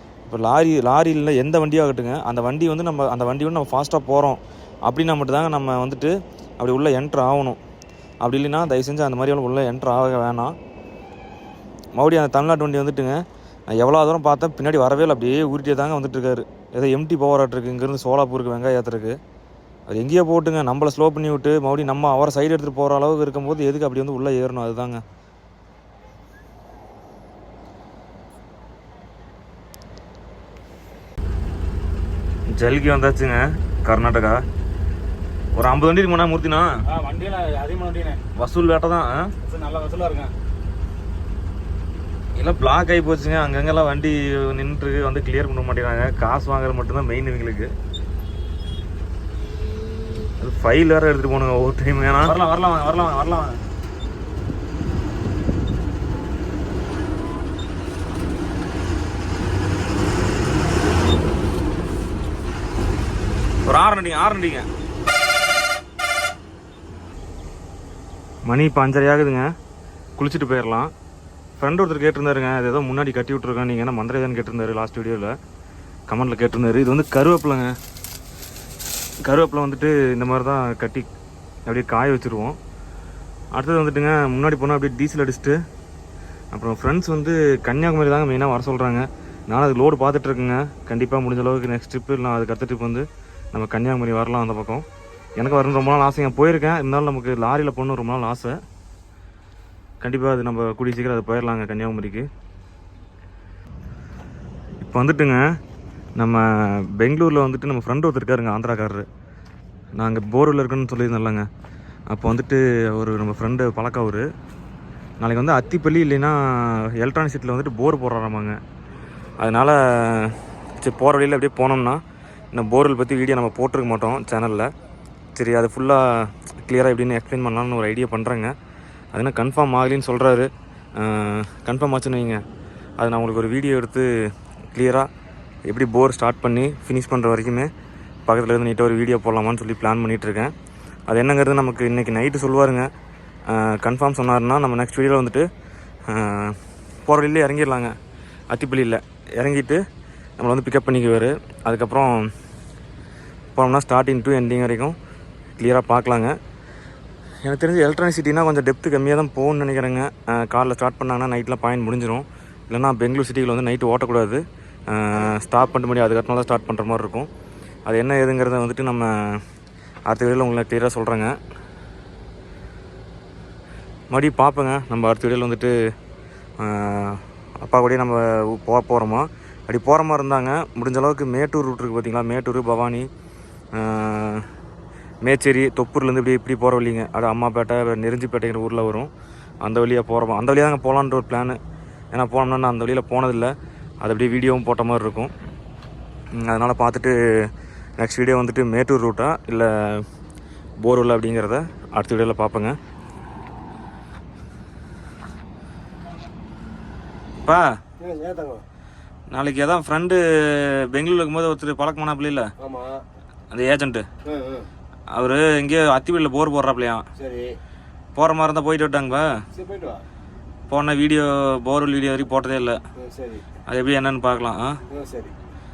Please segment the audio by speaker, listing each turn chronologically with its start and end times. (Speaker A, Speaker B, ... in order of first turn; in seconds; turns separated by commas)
Speaker A: 0.3-7.6, Speaker A: 8.2-10.5, Speaker A: 12.0-13.2, Speaker A: 13.7-19.2, Speaker A: 19.9-25.0, Speaker A: 32.5-34.4, Speaker A: 35.5-36.7, Speaker B: 36.9-38.2, Speaker A: 38.4-39.3, Speaker B: 39.4-40.3, Speaker A: 42.4-47.7, Speaker A: 50.4-53.5, Speaker A: 63.6-64.7, Speaker A: 68.5-69.5, Speaker A: 70.2-70.9, Speaker A: 71.6-75.3, Speaker A: 76.1-77.7, Speaker A: 79.2-81.1, Speaker A: 81.7-82.6, Speaker A: 83.5-85.6, Speaker A: 86.5-94.8, Speaker A: 95.4-98.6, Speaker A: 100.0-102.3, Speaker A: 104.8-105.4, Speaker A: 106.2-109.1, Speaker A: 110.0-111.5, Speaker A: 112.1-114.3, Speaker A: 115.2-118.6, Speaker A: 119.4-122.0, Speaker A: 122.5-124.7, Speaker A: 125.3-128.5, Speaker A: 129.1-132.4, Speaker A: 133.0-134.1, Speaker A: 134.7-135.1, Speaker A: 135.7-137.7, Speaker A: 138.3-140.5, Speaker A: 141.1-142.9, Speaker A: 143.5-145.5, Speaker A: 146.1-147.9, Speaker A: 148.5-149.8, Speaker A: 150.4-152.3, Speaker A: 153.6-154.9, Speaker A: 155.6-156.3, Speaker A: 157.4-167.3, Speaker A: 167.9-169.4, Speaker A: 170.1-171.4, Speaker A: 174.1-175.7, Speaker A: 176.6-183.1, Speaker A: 183.7-184.4, Speaker A: 185.2-189.1, Speaker A: 189.6-191.6, Speaker A: 192.1-195.3, Speaker A: 196.4-200.0, Speaker A: 200.8-202.8, Speaker A: 207.4-207.7, Speaker C: 208.0-208.6, Speaker A: 209.3-212.5, Speaker C: 212.6-213.0, Speaker A: 213.5-214.1, Speaker C: 214.2-214.7, Speaker A: 215.1-217.0, Speaker C: 217.2-217.5, Speaker A: 218.2-219.3, Speaker C: 219.5-220.0, Speaker A: 220.7-222.8, Speaker C: 223.0-223.4, Speaker A: 223.7-224.8, Speaker C: 224.9-225.3